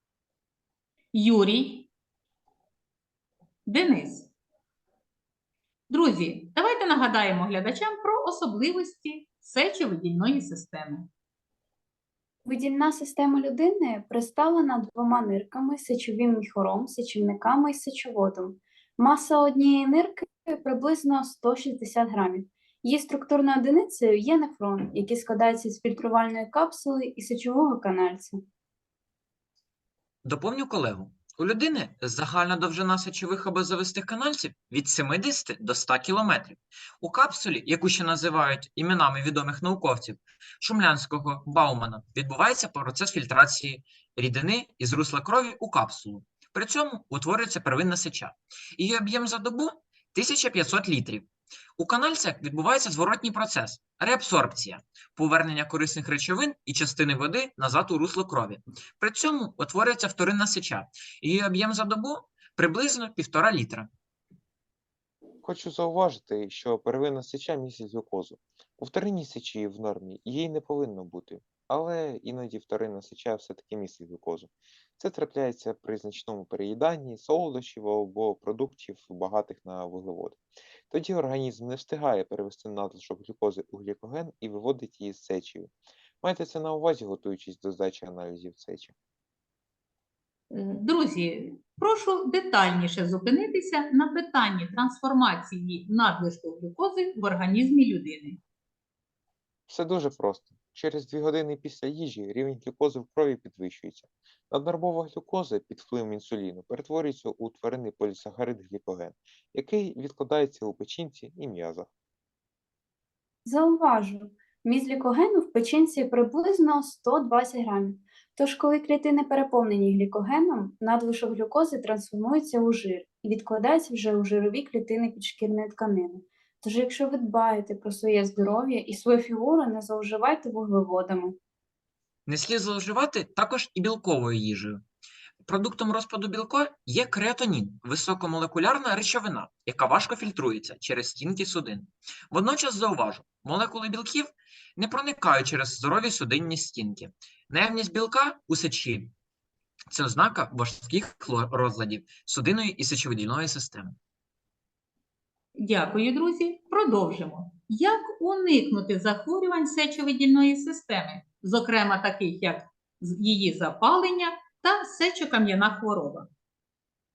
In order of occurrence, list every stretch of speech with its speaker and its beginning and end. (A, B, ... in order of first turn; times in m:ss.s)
0:01.1-0:01.9 A
0:03.7-0:04.3 A
0:05.9-0:11.1 A
0:12.5-0:28.4 B
0:30.2-1:03.9 C
1:05.4-1:28.9 D
1:30.5-1:38.4 A
1:39.7-1:51.9 D
1:53.4-2:11.4 B
2:12.3-2:14.8 C
2:15.4-2:29.1 C
2:29.9-2:34.0 C
2:35.6-2:46.3 A